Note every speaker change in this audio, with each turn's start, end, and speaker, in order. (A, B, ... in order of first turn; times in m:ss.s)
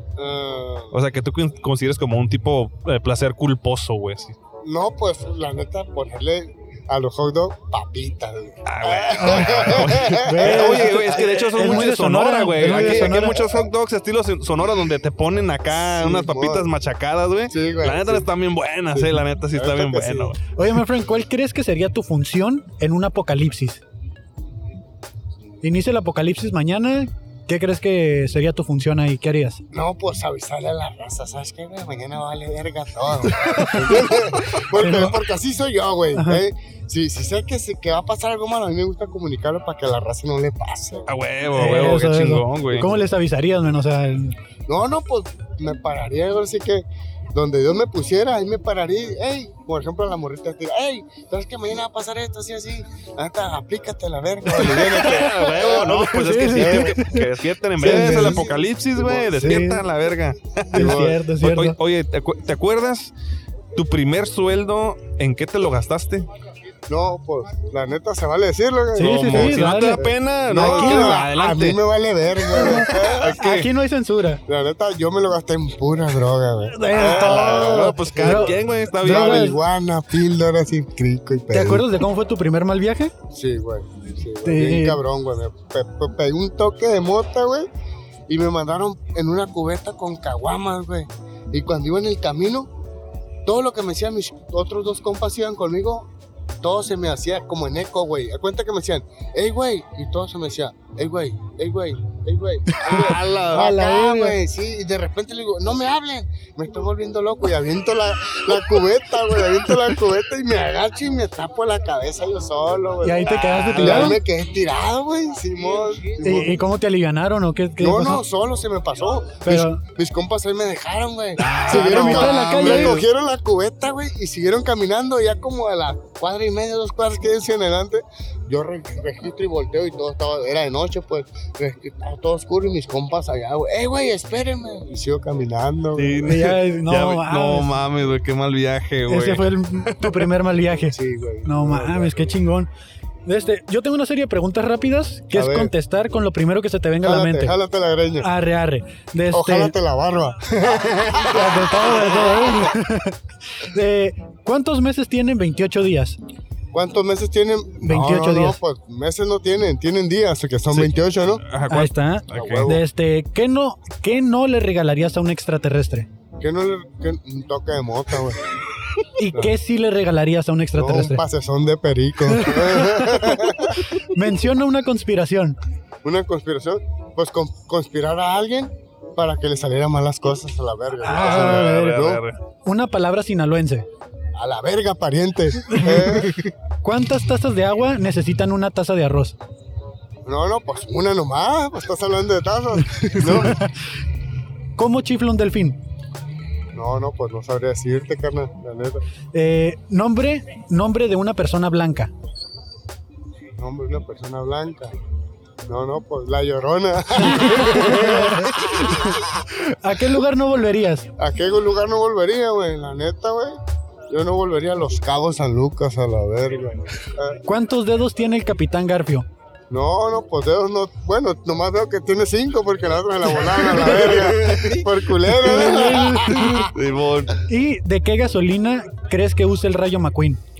0:00.2-0:01.0 A
0:00.9-0:04.4 B
0:04.6-0:11.8 A
0:08.6-0:20.4 B
0:09.2-0:13.4 C
0:12.6-0:13.6 A
0:15.7-0:16.7 A
0:17.5-0:18.3 A
0:18.9-0:20.3 A
0:20.6-0:23.8 C
0:25.6-0:29.6 C
0:29.7-0:41.1 A
0:33.5-0:34.1 C
0:34.8-0:35.1 C
0:36.1-0:36.4 C
0:41.1-0:42.9 B
0:41.5-0:44.4 C
0:42.7-0:43.0 A
0:44.7-0:57.1 A
0:54.5-0:58.4 C
0:54.8-1:03.1 B
0:57.7-0:59.6 A
0:59.3-0:59.8 C
1:00.7-1:01.8 C
1:00.7-1:01.2 A
1:03.7-1:06.3 B
1:06.9-1:13.7 A
1:08.9-1:11.2 C
1:09.0-1:11.8 B
1:12.5-1:14.4 C
1:12.8-1:13.6 B
1:14.4-1:21.9 A
1:16.7-1:19.6 C
1:16.9-1:19.5 B
1:21.5-1:23.1 C
1:23.3-1:27.7 A
1:24.4-1:25.0 C
1:28.3-1:32.7 A
1:33.4-1:36.1 A
1:36.6-1:56.6 A
1:42.7-1:44.4 C
1:43.0-1:43.7 B
1:48.5-1:48.8 C
1:53.0-1:54.2 C
1:53.2-1:54.2 B
1:56.2-1:58.2 C
1:57.8-2:16.4 A
1:59.4-1:59.8 C
2:01.4-2:03.0 B
2:01.7-2:03.0 C
2:15.9-2:20.3 B
2:16.2-2:17.7 C
2:19.1-2:22.7 C
2:20.9-2:22.4 A
2:23.2-2:27.6 C
2:25.3-2:25.7 A
2:27.0-2:28.3 A
2:28.2-2:29.7 C
2:29.3-2:31.6 A
2:31.1-2:36.2 C
2:36.7-2:41.4 A
2:37.8-2:38.6 C
2:40.7-2:42.8 B
2:41.7-2:46.1 C
2:42.3-2:42.8 A
2:46.4-2:48.4 A
2:49.2-2:51.2 C
2:50.7-2:53.8 A
2:52.3-2:55.6 C
2:56.0-3:02.2 A
3:01.0-3:03.8 C
3:01.1-3:02.4 B
3:04.4-3:06.4 A
3:05.7-3:06.3 C
3:06.8-3:09.4 C
3:10.2-3:13.6 A
3:12.9-3:13.7 C
3:14.8-3:15.8 C
3:16.7-3:19.0 A
3:19.3-3:22.1 C
3:23.6-3:24.9 A
3:25.7-3:29.4 A
3:27.2-3:31.0 C
3:31.2-3:33.6 A
3:34.1-3:37.4 A
3:37.4-3:39.3 C
3:39.7-3:46.7 A
3:43.7-3:44.9 B
3:45.4-3:46.7 C
3:45.5-3:47.4 B
3:47.5-3:50.4 C